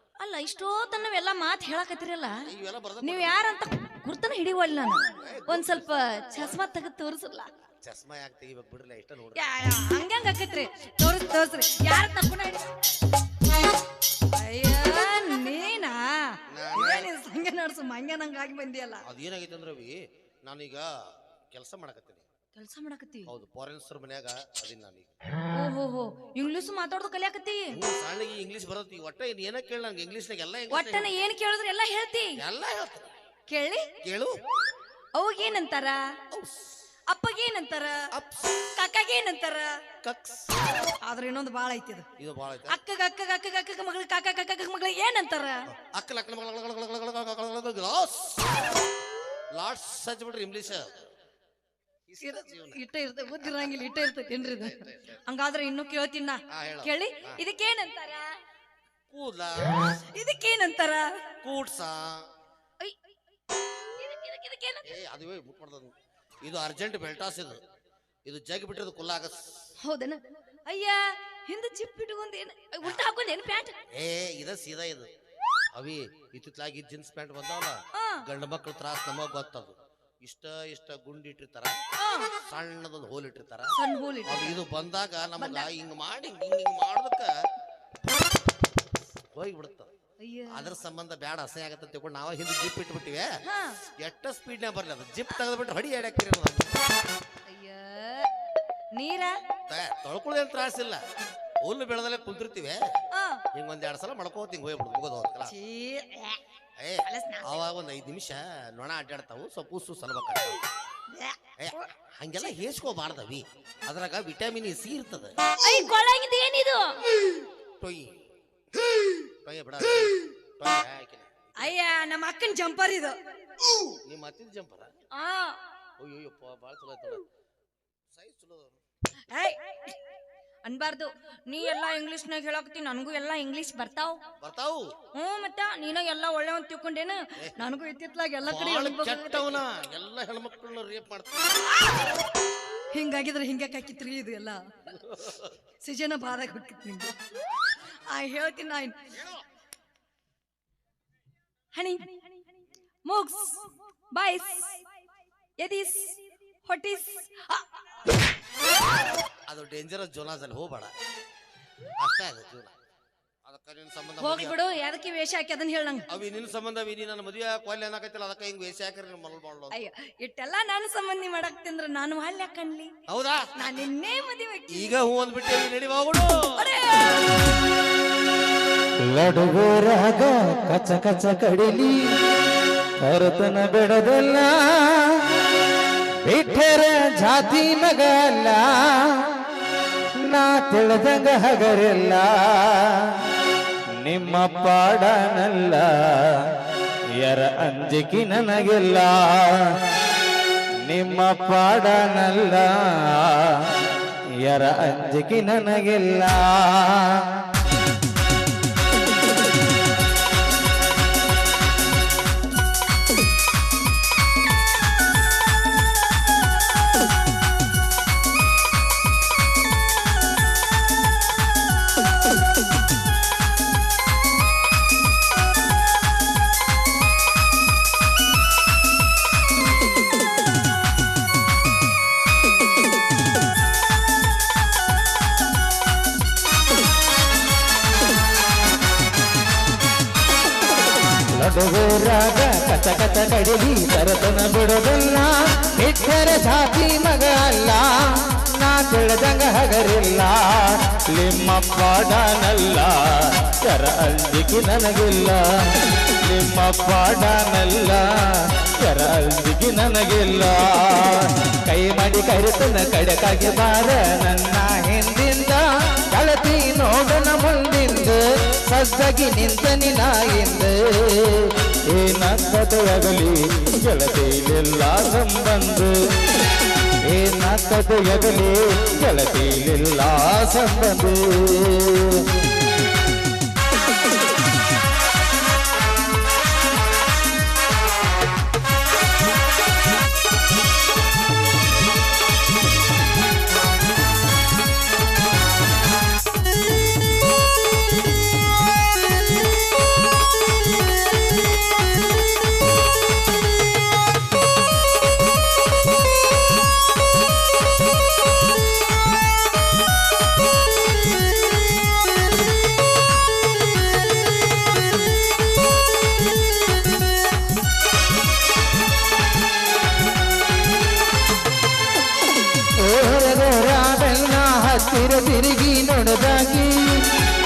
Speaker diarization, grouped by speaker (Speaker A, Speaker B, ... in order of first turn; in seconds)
Speaker A: 0.2-2.4, 3.0-7.5, 9.3-12.7, 14.3-19.0, 22.5-23.3, 25.5-27.8, 30.7-32.4, 33.5-33.9, 35.1-36.1, 37.1-38.1, 38.7-39.8, 41.0-42.0, 42.7-45.7, 52.2-58.3, 60.1-61.1, 64.0-64.9, 69.8-73.8, 77.9-78.2, 81.9-82.3, 83.7-84.5, 85.4-85.7, 90.2-90.7, 93.4-93.8, 97.5-98.3, 98.9-99.4, 103.1-103.4, 105.5-106.4, 107.0-107.6, 111.1-111.8, 115.6-117.0, 121.6-123.2, 125.1-125.6, 129.3-130.0, 130.6-134.2, 135.1-139.6, 142.9-145.1, 145.8-147.1, 148.1-149.1, 151.7-152.3, 153.0-154.8, 155.6-157.7, 164.2-166.1, 169.7-172.9, 173.5-174.9, 176.6-177.4
Speaker B: 2.5-3.4, 5.2-6.6, 7.8-9.4, 16.5-17.1, 19.0-20.9, 21.5-22.2, 23.3-25.1, 27.7-31.1, 32.4-33.1, 34.0-34.3, 36.3-36.8, 38.1-38.8, 40.0-40.5, 42.2-42.8, 45.7-48.5, 49.5-51.0, 52.1-52.8, 53.3-53.7, 54.3-55.2, 56.5-57.4, 59.1-59.9, 61.4-62.2, 64.8-67.6, 68.2-69.7, 73.9-75.1, 75.7-81.8, 82.4-83.7, 84.2-87.3, 89.3-89.9, 90.5-93.3, 94.0-96.8, 99.7-101.0, 101.6-102.9, 103.5-105.5, 106.8-110.6, 111.6-115.3, 117.8-118.2, 119.4-121.7, 124.0-124.9, 126.0-127.2, 128.1-128.8, 134.4-134.9, 138.4-141.7, 145.2-145.4, 159.5-160.9, 162.0-162.7, 163.4-164.6, 166.1-169.8, 173.1-173.5, 174.7-176.6
Speaker C: 179.0-182.1, 183.0-185.4, 186.2-189.4, 190.2-193.2, 194.0-196.5, 197.2-199.7, 200.8-203.9, 204.4-207.3, 241.3-275.9, 277.0-282.2, 322.8-327.2